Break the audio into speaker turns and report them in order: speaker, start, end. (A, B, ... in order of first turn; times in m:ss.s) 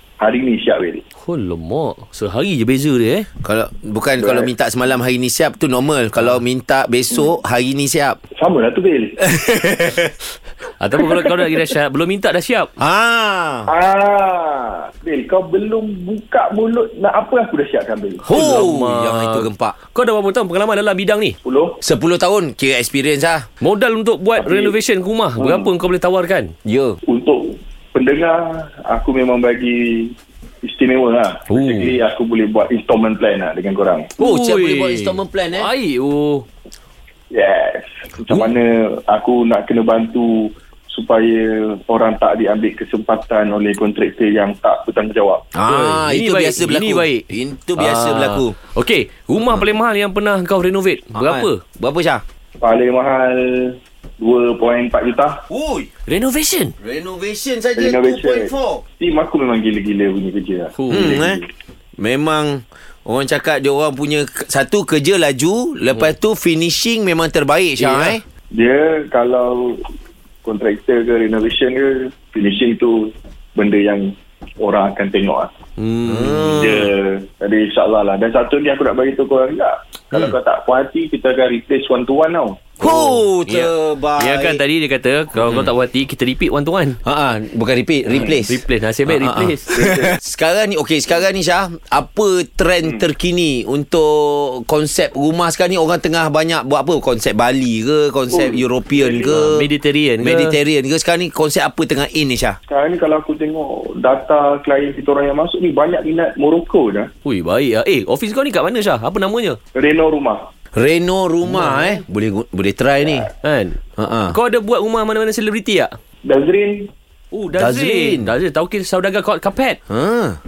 0:00.2-0:01.0 A
0:01.2-0:03.3 B
0:03.4-0:08.2 C
0:04.2-0:04.5 A
0:08.4-0:09.3 A
0:09.3-0:10.1 C
0:10.8-0:12.7 B
0:12.8-0:13.7 C
0:13.7-0:18.4 A
0:18.2-0:21.4 B
0:18.3-0:19.8 C
0:21.4-0:21.8 A
0:21.8-0:23.4 C
0:23.6-0:26.5 B
0:24.4-0:24.8 A
0:25.4-0:25.7 A
0:26.6-0:27.0 C
0:27.0-0:34.1 A
0:31.5-0:32.0 B
0:34.2-0:35.7 C
0:34.2-0:36.4 B
0:37.3-0:45.4 A
0:45.5-0:48.6 C
0:45.6-0:51.6 B
0:51.1-0:52.2 C
0:52.6-0:55.4 A
0:55.5-0:55.9 C
0:56.0-0:56.7 B
0:56.8-0:58.8 C
0:57.8-1:01.5 A
1:00.7-1:01.2 B
1:00.9-1:01.4 C
1:02.0-1:08.2 C
1:07.8-1:08.2 B
1:08.5-1:09.8 A
1:10.4-1:15.5 A
1:15.8-1:16.6 B
1:16.0-1:16.9 C
1:16.5-1:22.7 A
1:22.8-1:24.6 C
1:22.8-1:27.0 B
1:27.0-1:39.7 C
1:28.1-1:29.7 B
1:29.7-1:30.2 A
1:38.3-1:39.5 A
1:39.3-1:40.6 B
1:40.2-1:42.6 C
1:42.6-1:47.1 A
1:47.2-1:49.6 B
1:49.7-1:50.4 A
1:50.7-1:53.3 C
1:51.4-1:52.0 B
1:53.0-1:53.3 A
1:53.4-1:53.8 B
1:54.0-1:54.4 C
1:54.3-1:55.9 B
1:56.2-1:56.9 A
1:57.3-1:59.8 B
1:57.6-1:58.3 C
1:59.9-2:00.4 C